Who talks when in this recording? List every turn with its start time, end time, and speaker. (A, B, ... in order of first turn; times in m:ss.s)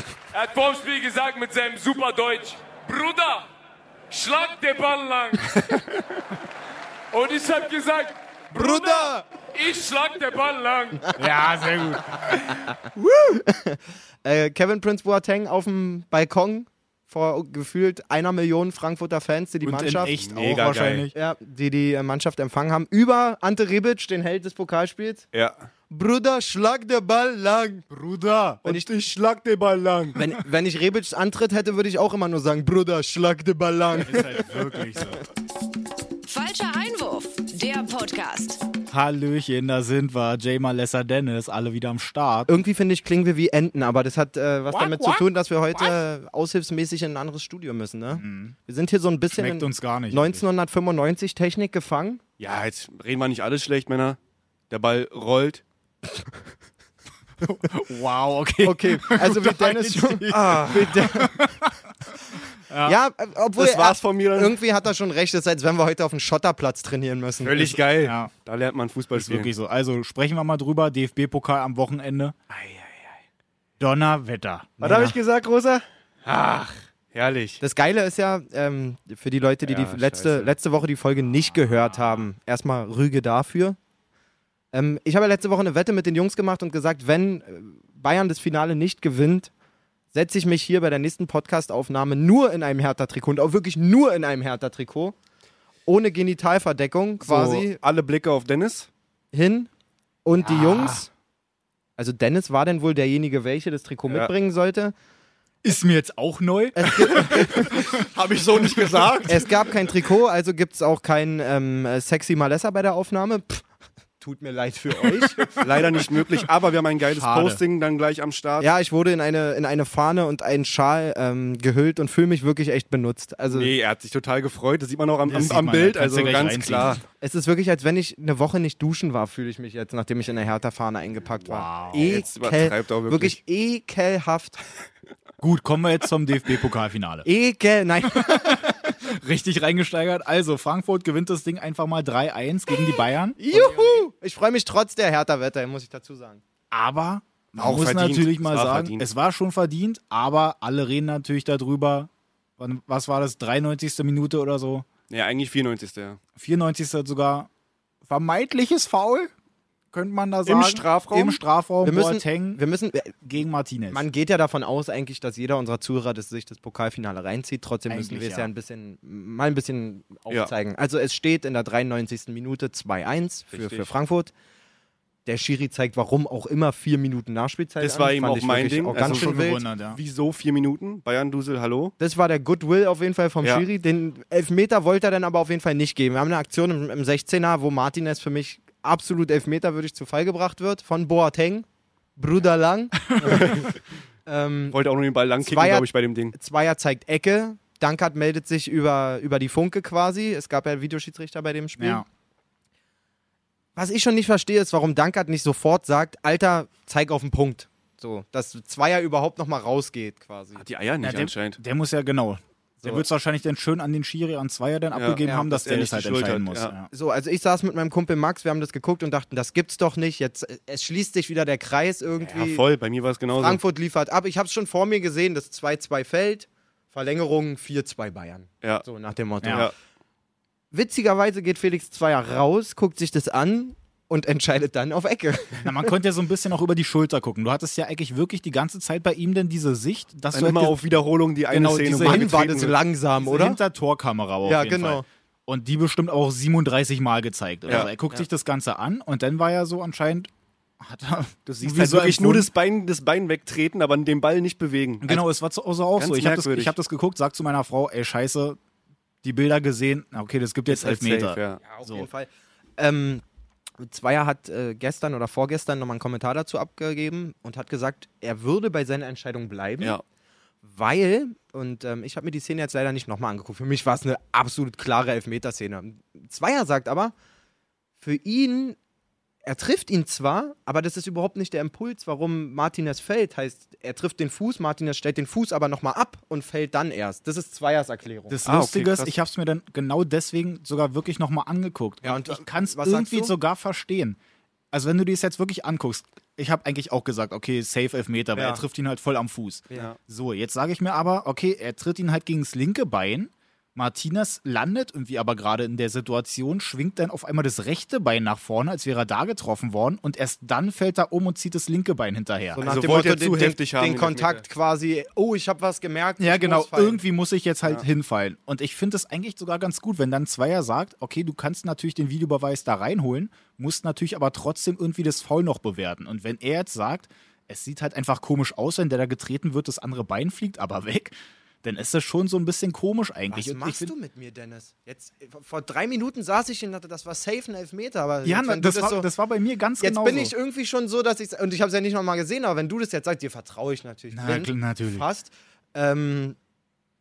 0:00.3-0:03.5 A
0:04.1-0:06.0 A
0:07.1-0:11.2 A
0:08.6-0:09.2 B
0:11.2-0:12.7 C
0:13.0-0:20.2 B
0:19.6-0:21.1 C
0:20.0-0:21.1 D
0:21.1-0:25.3 B
0:25.3-0:25.6 D
0:25.9-0:27.9 B
0:27.9-0:28.7 C
0:28.6-0:30.2 D
0:30.2-0:34.3 B
0:34.0-0:35.2 C
0:36.3-0:38.7 E
0:38.9-0:42.5 C
0:42.5-0:52.2 B
0:44.7-0:45.2 C
0:48.2-0:48.6 C
0:49.3-0:50.4 C
0:52.4-0:54.2 D
0:54.7-0:55.6 D
0:57.4-0:57.7 B
0:57.7-1:01.8 C
0:58.6-1:01.4 B
1:02.7-1:03.0 C
1:02.8-1:07.7 B
1:03.6-1:04.6 D
1:07.4-1:09.5 D
1:08.0-1:08.3 C
1:09.1-1:12.4 C
1:12.5-1:12.8 D
1:13.8-1:15.2 C
1:14.8-1:17.6 D
1:17.6-1:23.8 B
1:19.6-1:20.5 D
1:21.5-1:22.3 C
1:24.7-1:29.5 B
1:30.1-1:35.2 B
1:35.9-1:37.8 B
1:37.2-1:38.9 D
1:39.3-1:39.7 B
1:40.2-1:41.1 B
1:40.4-1:41.0 C
1:42.0-1:44.9 B
1:45.6-1:49.4 C
1:46.8-1:47.7 B
1:47.6-1:49.4 D
1:49.3-1:53.6 B
1:54.2-1:55.6 B
1:55.5-1:58.7 D
1:57.1-1:57.6 C
1:58.6-2:03.7 B
2:03.5-2:07.0 D
2:05.2-2:07.0 C
2:07.2-2:14.6 B
2:11.4-2:12.1 C
2:12.0-2:13.4 D
2:15.4-2:17.3 C
2:17.2-2:18.8 B
2:18.0-2:23.7 C
2:23.4-2:26.4 B
2:26.7-2:34.9 C
2:27.6-2:29.1 D
2:35.1-2:36.2 D
2:36.4-2:37.5 C
2:38.1-2:39.3 C
2:39.9-2:42.6 C
2:40.5-2:43.1 B
2:40.6-2:41.1 D
2:43.2-2:44.0 C
2:43.9-2:54.3 B
2:47.9-2:48.5 C
2:53.5-2:53.9 D
2:55.3-2:59.6 B
2:57.8-3:01.9 D
2:58.9-3:00.0 C
3:02.0-3:11.7 B
3:12.2-3:13.6 B
3:13.1-3:13.4 C
3:13.2-3:13.8 D
3:14.3-3:14.8 B
3:14.7-3:16.4 D
3:15.4-3:22.0 B
3:21.8-3:22.0 C
3:23.8-3:30.6 B
3:30.6-3:31.6 D
3:31.0-3:36.9 C
3:34.9-3:36.7 D
3:36.9-3:42.6 B
3:42.2-3:43.6 D
3:43.4-3:49.7 B
3:50.7-3:55.9 B
3:55.6-4:00.8 C
4:00.3-4:02.8 D
4:01.5-4:02.5 C
4:02.0-4:03.6 B
4:03.2-4:10.3 C
4:04.4-4:05.1 B
4:10.8-4:12.5 C
4:11.5-4:15.3 D
4:15.0-4:18.6 C
4:16.0-4:16.8 D
4:19.2-4:22.1 C
4:20.7-4:21.6 D
4:21.6-4:23.2 B
4:23.8-4:30.0 B
4:30.6-4:37.1 B
4:38.0-4:38.8 B
4:39.4-4:48.4 B
4:48.3-4:54.2 C
4:48.5-4:49.1 D
4:52.0-4:53.4 B
4:54.7-5:12.6 C
4:58.4-4:58.6 B
5:12.6-5:17.0 B
5:12.6-5:14.4 D
5:16.2-5:33.9 C
5:33.3-5:39.1 B
5:38.2-5:40.3 C
5:39.8-5:46.4 B
5:44.1-5:45.1 C